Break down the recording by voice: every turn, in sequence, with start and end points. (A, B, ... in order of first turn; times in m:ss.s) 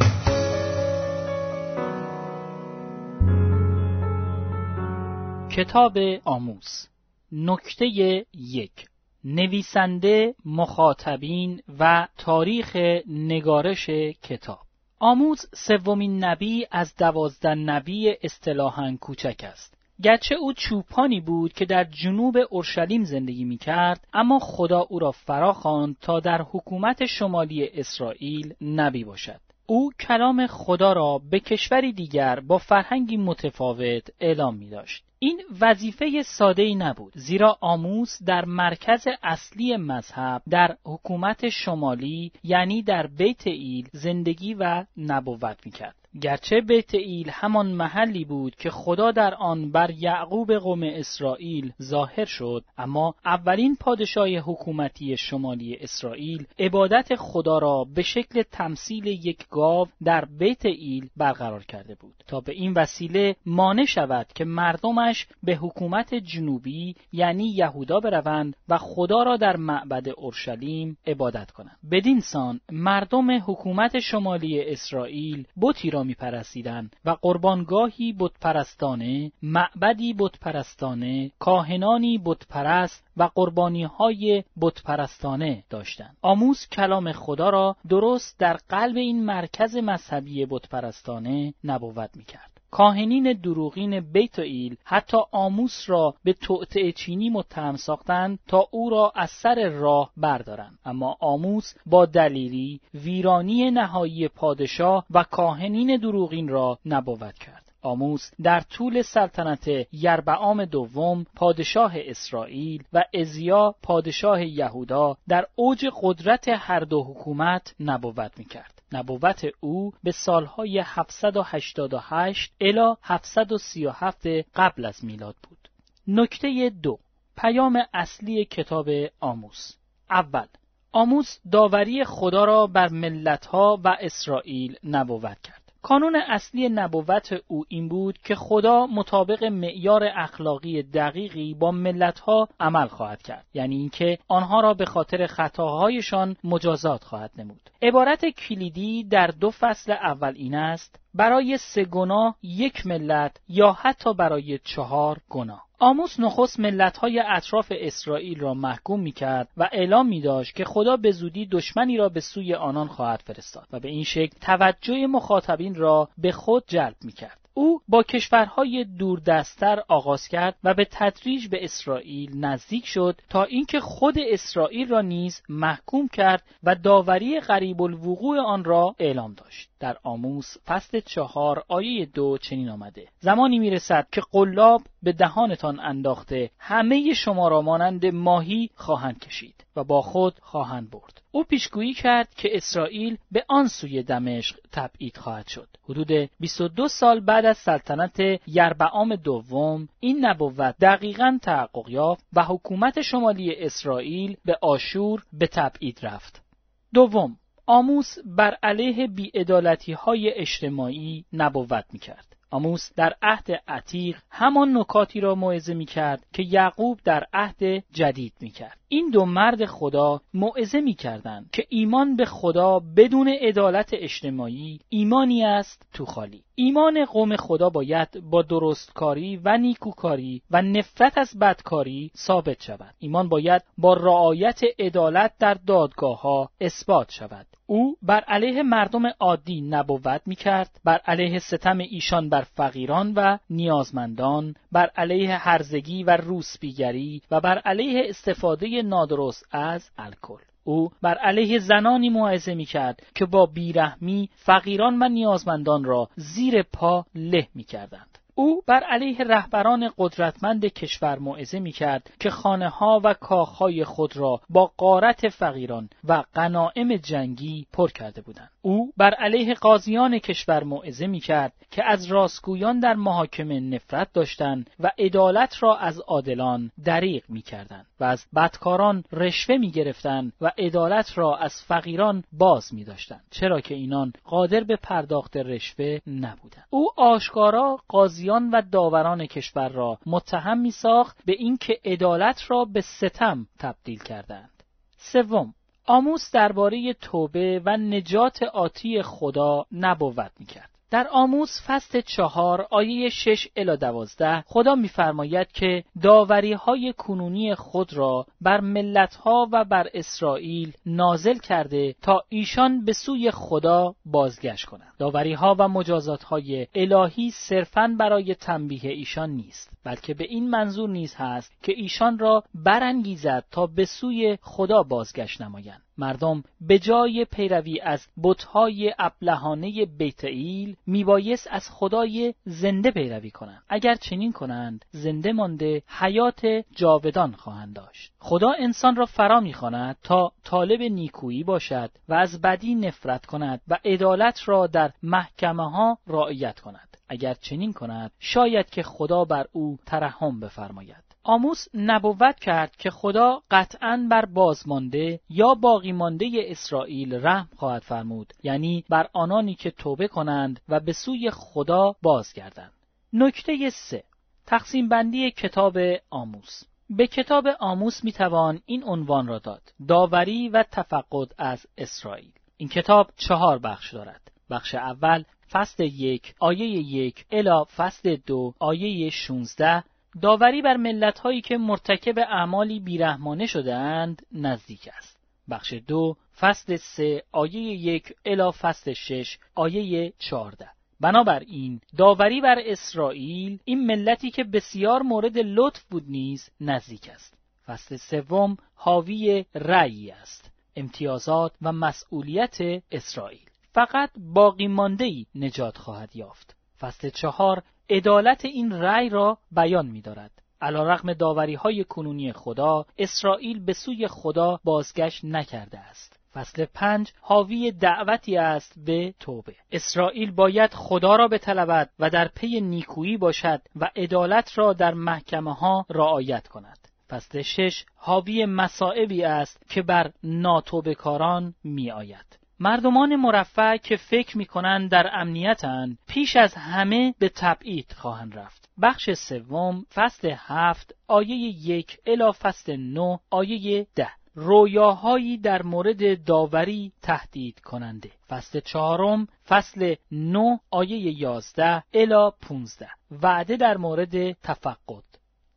0:05.5-3:26.4 A
3:26.9-7:35.1 A